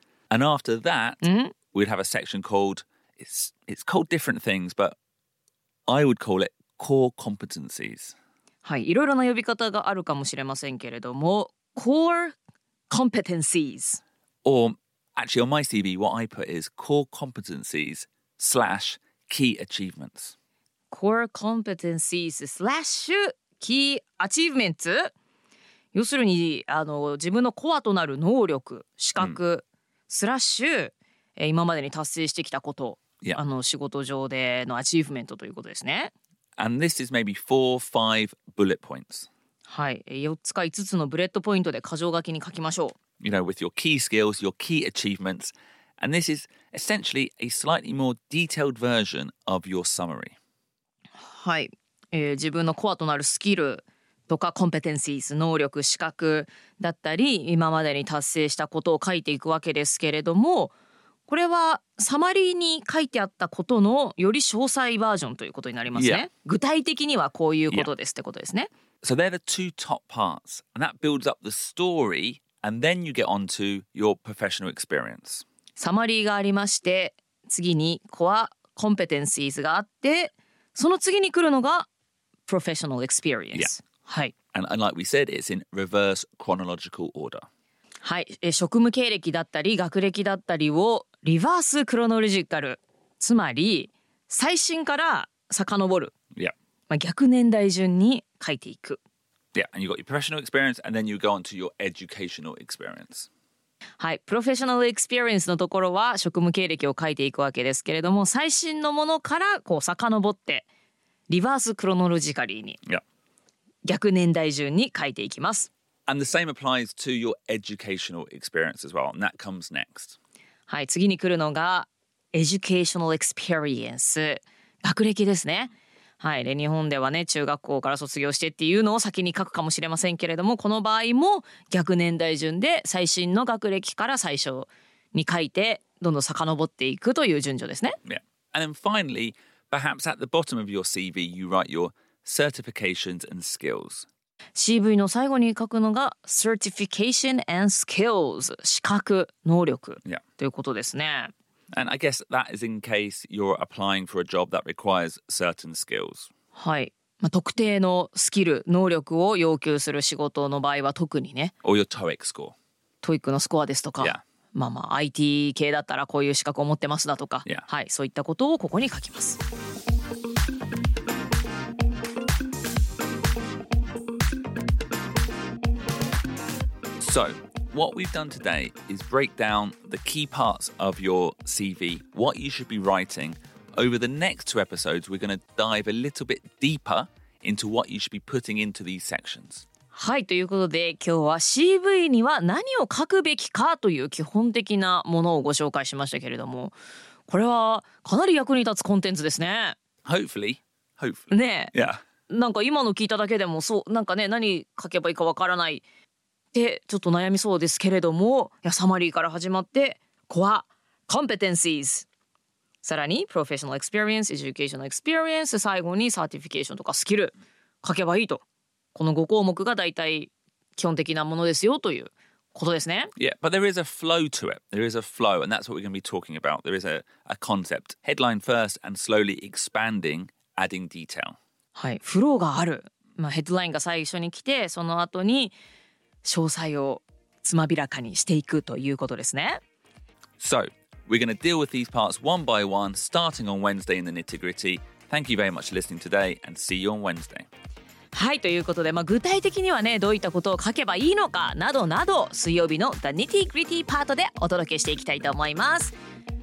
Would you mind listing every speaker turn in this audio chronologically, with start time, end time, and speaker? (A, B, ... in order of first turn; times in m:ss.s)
0:00.3-0:05.0 A
0:01.2-0:01.6 B
0:05.9-0:08.2 A
0:08.6-0:12.4 B
0:12.9-0:14.0 B
0:14.4-0:20.3 A
0:20.9-0:25.1 B
0:25.9-0:36.1 B
0:36.6-0:39.3 A
0:39.7-0:43.0 B
0:43.2-0:50.4 A
0:51.2-1:00.7 B
1:01.3-1:08.7 B
1:05.9-1:06.3 A
1:09.0-1:15.4 A
1:15.8-1:21.9 B
1:22.5-1:24.3 B
1:24.5-1:27.5 A
1:28.0-1:36.1 B
1:36.9-1:39.0 B
1:39.5-1:43.3 A
1:44.0-1:50.7 B
1:51.3-1:52.8 B
1:53.8-1:55.7 B
1:56.1-2:00.2 A
2:00.7-2:18.0 B
2:18.0-2:24.1 A
2:24.6-2:31.3 B
2:31.7-2:36.3 A
2:36.6-2:41.5 B
2:41.6-2:42.6 A
2:43.0-2:49.4 B
2:57.0-3:09.6 A
3:09.9-3:16.8 B
3:17.3-3:19.8 B
3:20.0-3:22.0 A
3:21.3-3:21.7 B
3:22.3-3:25.8 B
3:26.5-3:32.1 B
3:32.8-3:38.4 B
3:39.0-3:43.1 B
3:43.2-3:51.4 A
3:51.8-3:55.6 B
3:56.2-3:59.6 B
4:00.4-4:07.5 A
4:08.1-4:16.0 B